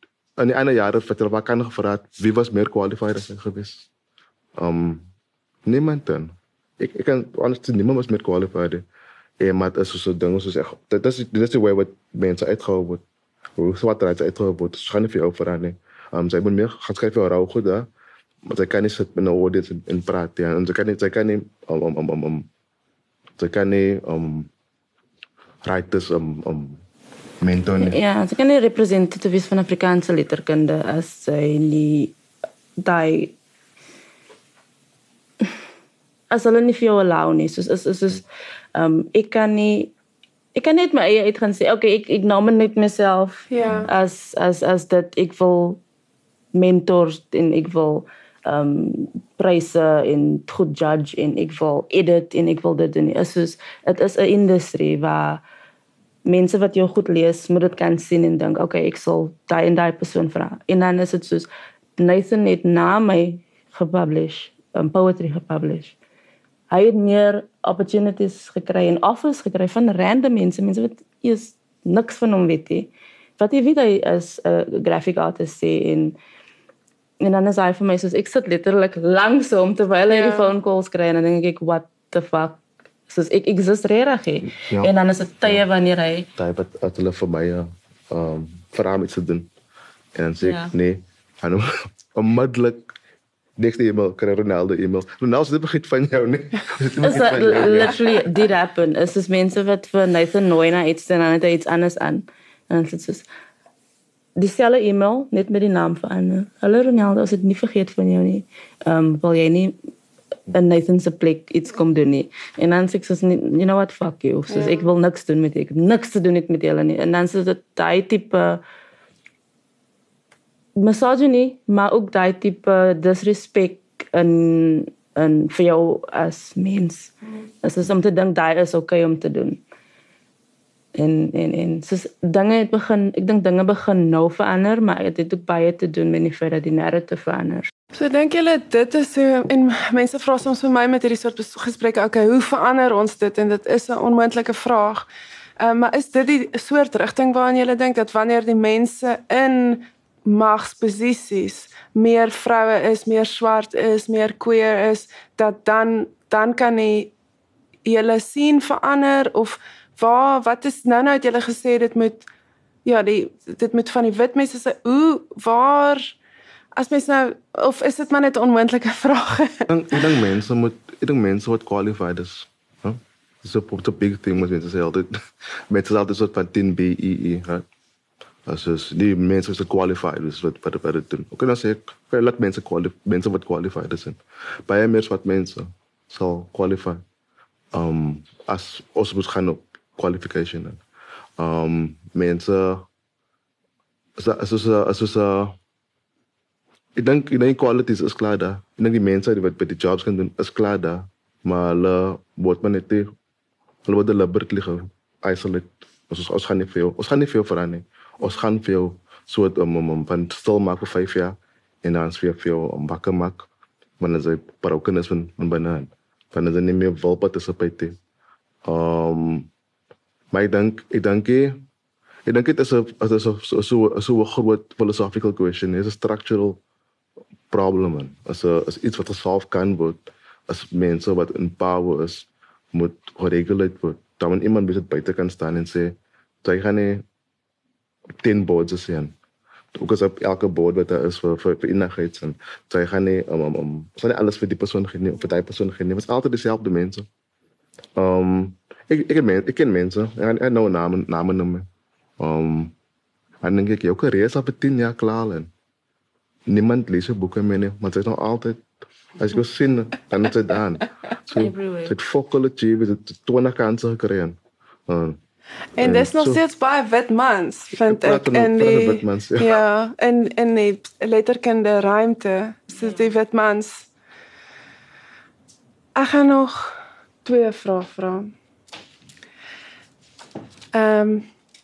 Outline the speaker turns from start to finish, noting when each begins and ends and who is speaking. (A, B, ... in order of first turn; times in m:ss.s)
0:00.4-0:03.9 A
0:04.6-0:05.0 A
0:05.6-0:08.8 A
0:09.4-0:13.0 A
0:13.6-0:17.9 A
0:18.4-0:22.5 A
0:23.4-0:24.5 A
0:25.6-0:26.8 A
0:27.4-0:28.0 A
0:27.8-0:32.1 B
0:32.8-0:33.3 B
0:36.3-0:38.2 B
0:38.8-0:39.9 B
0:40.6-0:45.8 B
0:43.5-0:43.9 C
0:46.5-0:55.4 B
0:56.2-1:06.0 B
1:06.7-1:16.2 B
1:17.2-1:26.3 B
1:20.1-1:20.5 C
1:24.5-1:24.9 A
1:26.4-1:29.5 A
1:30.1-1:32.9 A
1:30.4-1:30.7 B
1:33.6-1:38.3 A
1:37.0-1:43.3 B
1:44.4-1:49.7 B
1:50.5-1:58.6 B
1:54.5-1:54.9 C
2:00.8-2:09.6 B
2:11.0-2:17.7 B
2:17.9-2:25.1 C
2:25.6-2:37.1 C
2:37.8-2:42.3 C
2:42.8-2:46.2 C
2:46.8-2:50.0 C
2:49.7-2:55.1 A
2:55.7-2:57.6 A
2:58.5-3:07.0 A
3:07.7-3:10.8 A
3:11.4-3:12.9 A
3:14.2-3:15.6 A
3:17.0-3:23.1 A
3:23.8-3:33.5 A
3:34.0-3:38.0 A
3:38.6-3:39.5 A
3:40.3-3:41.6 A
3:42.2-3:46.6 A
3:47.5-3:57.0 A
3:58.2-3:59.1 A
3:59.7-4:07.1 A
4:08.0-4:11.6 A
4:12.2-4:12.7 A
4:13.4-4:15.5 A
4:16.5-4:18.6 A
4:19.2-4:25.2 A
4:21.4-4:21.9 B
4:25.8-4:33.9 C
4:25.8-4:26.4 A
4:27.8-4:29.6 A
4:36.0-4:38.3 C
4:40.7-4:41.3 C